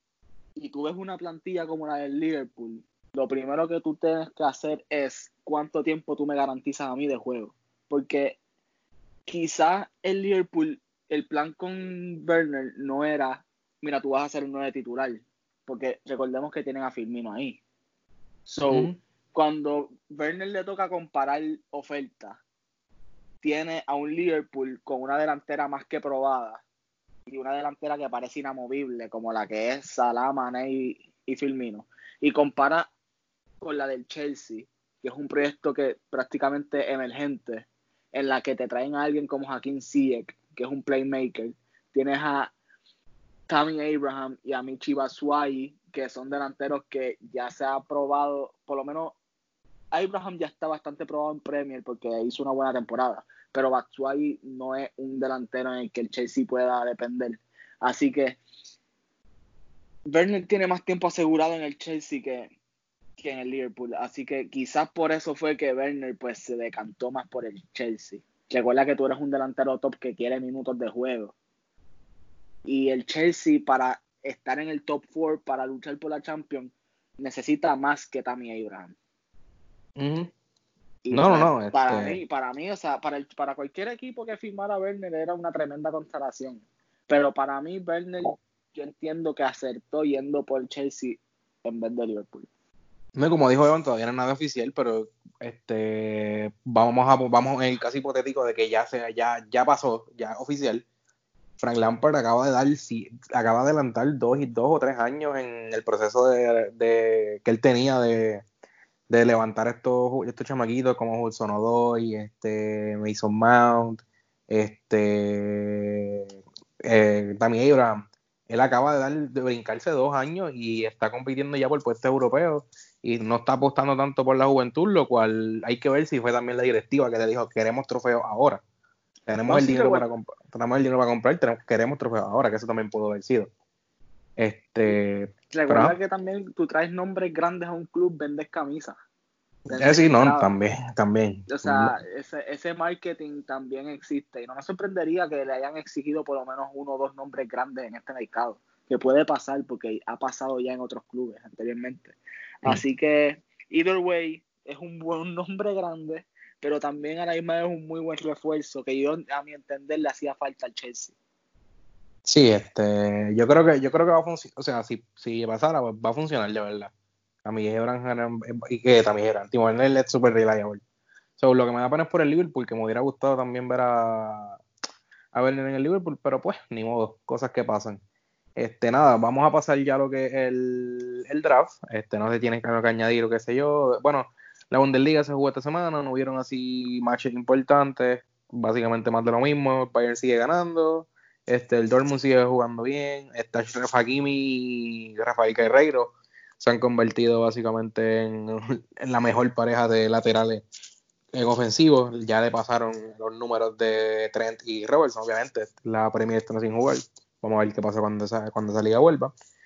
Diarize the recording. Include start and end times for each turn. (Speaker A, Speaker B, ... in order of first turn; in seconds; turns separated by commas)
Speaker A: 0.6-8.4, Speaker A: 9.3-17.6, Speaker A: 18.5-22.4, Speaker B: 18.7-19.0, Speaker A: 23.4-26.6, Speaker A: 27.3-32.9, Speaker A: 33.6-42.5, Speaker A: 43.5-49.1, Speaker A: 49.9-58.4, Speaker A: 60.1-62.5, Speaker A: 63.2-71.3, Speaker A: 72.7-78.9, Speaker B: 80.0-80.3, Speaker A: 81.0-92.5, Speaker B: 81.1-82.2, Speaker B: 93.2-100.8, Speaker B: 101.6-108.4, Speaker B: 109.1-116.2, Speaker B: 116.8-128.6, Speaker B: 129.3-133.5, Speaker A: 129.4-130.0, Speaker B: 134.4-135.9, Speaker A: 135.5-139.0, Speaker A: 139.7-140.5, Speaker B: 139.7-141.9, Speaker A: 141.5-161.1, Speaker B: 162.3-166.9, Speaker B: 167.4-170.8, Speaker B: 171.4-174.6, Speaker B: 175.3-178.0, Speaker B: 178.6-200.6, Speaker B: 201.3-209.3